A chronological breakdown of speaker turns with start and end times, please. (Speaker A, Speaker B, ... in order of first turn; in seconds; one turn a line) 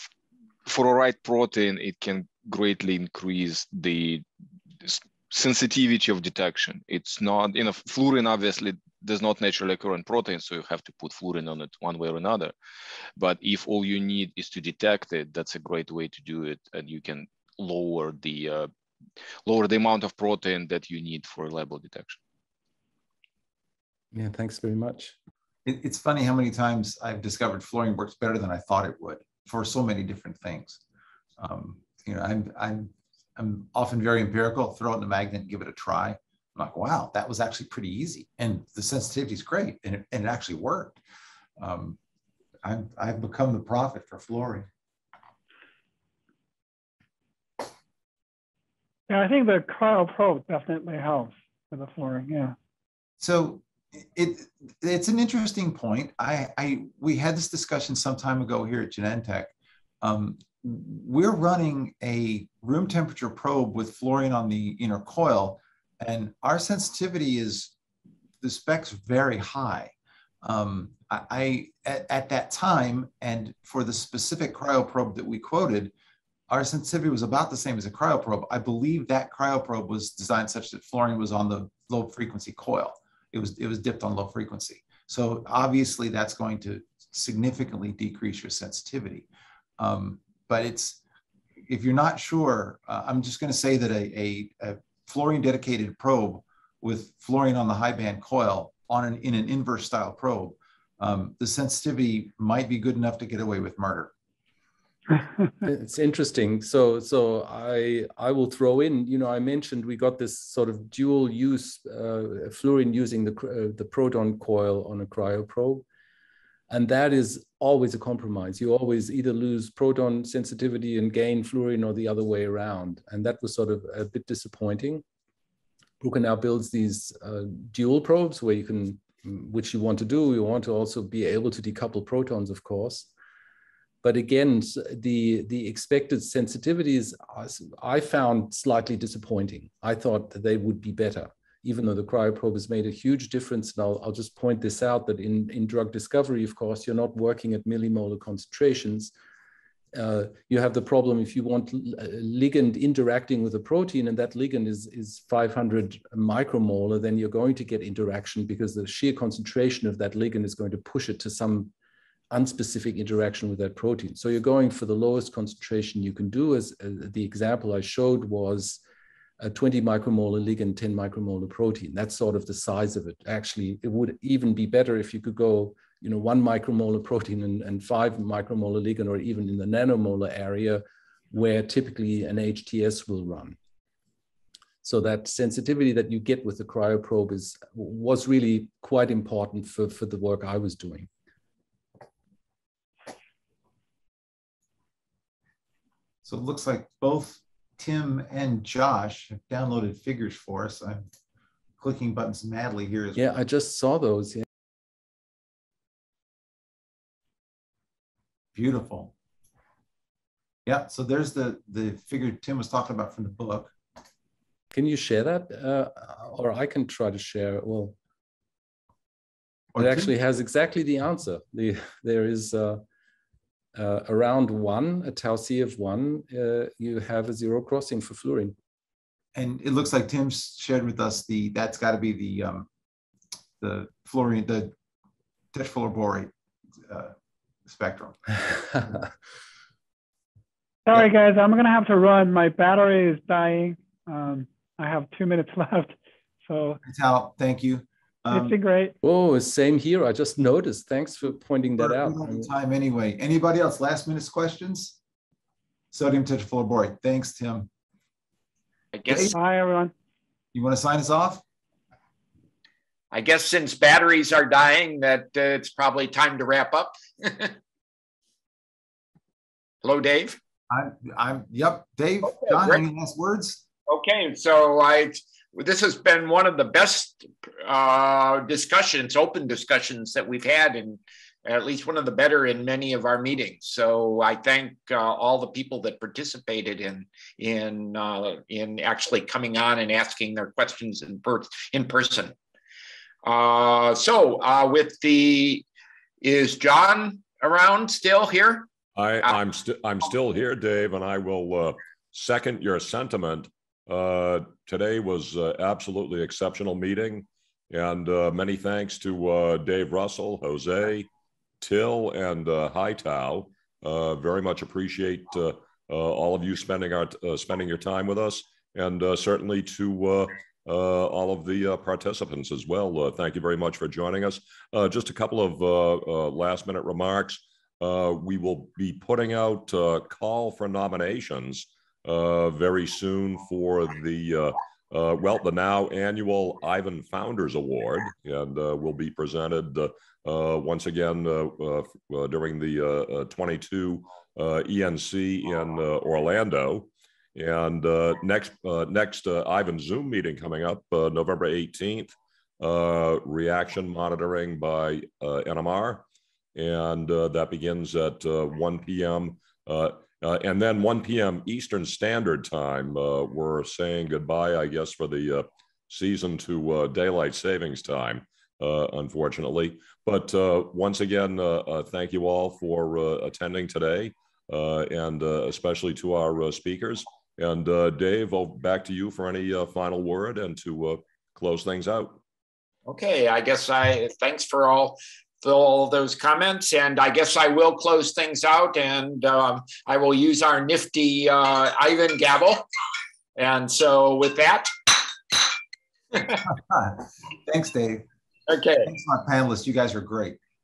Speaker A: 0.7-4.3
Speaker A: 4.8-12.6
Speaker A: 13.2-18.7
Speaker A: 19.4-22.2
Speaker B: 24.1-25.2
Speaker C: 25.6-30.8
Speaker C: 31.4-41.0
Speaker C: 41.6-42.0
Speaker C: 42.6-44.7
Speaker D: 49.1-52.5
Speaker C: 53.2-67.7
Speaker C: 68.4-75.9
Speaker C: 76.5-89.3
Speaker C: 89.8-91.0
Speaker C: 91.7-104.1
Speaker B: 105.6-115.8
Speaker B: 116.7-125.0
Speaker B: 126.0-133.1
Speaker B: 134.0-149.1
Speaker B: 149.9-161.7
Speaker B: 162.3-168.8
Speaker B: 169.4-183.6
Speaker B: 184.8-191.1
Speaker C: 196.2-201.1
Speaker C: 201.8-203.2
Speaker B: 203.2-204.5
Speaker C: 208.5-209.1
Speaker C: 210.7-213.7
Speaker B: 214.7-218.0
Speaker C: 219.7-220.1
Speaker B: 219.8-222.8
Speaker B: 223.8-228.6
Speaker C: 229.3-232.7
Speaker C: 233.6-234.7
Speaker C: 235.5-236.3
Speaker C: 236.9-237.1
Speaker C: 237.7-238.2
Speaker B: 238.5-239.1
Speaker D: 240.9-246.8
Speaker C: 246.8-248.6
Speaker D: 248.3-248.9
Speaker B: 249.0-252.5
Speaker C: 251.8-255.0
Speaker C: 255.9-257.7
Speaker E: 258.9-259.3
Speaker C: 259.1-259.3
Speaker D: 259.3-259.9
Speaker C: 260.5-261.4
Speaker E: 263.1-267.5
Speaker E: 269.8-270.4
Speaker C: 270.7-273.6
Speaker E: 272.2-272.8
Speaker E: 273.9-292.4
Speaker E: 293.2-295.6
Speaker E: 296.2-298.7
Speaker F: 299.0-311.1
Speaker F: 311.6-356.0
Speaker F: 356.6-382.2
Speaker E: 382.9-392.6
Speaker E: 393.4-394.7
Speaker C: 396.5-398.1
Speaker E: 398.5-398.9
Speaker C: 398.9-400.4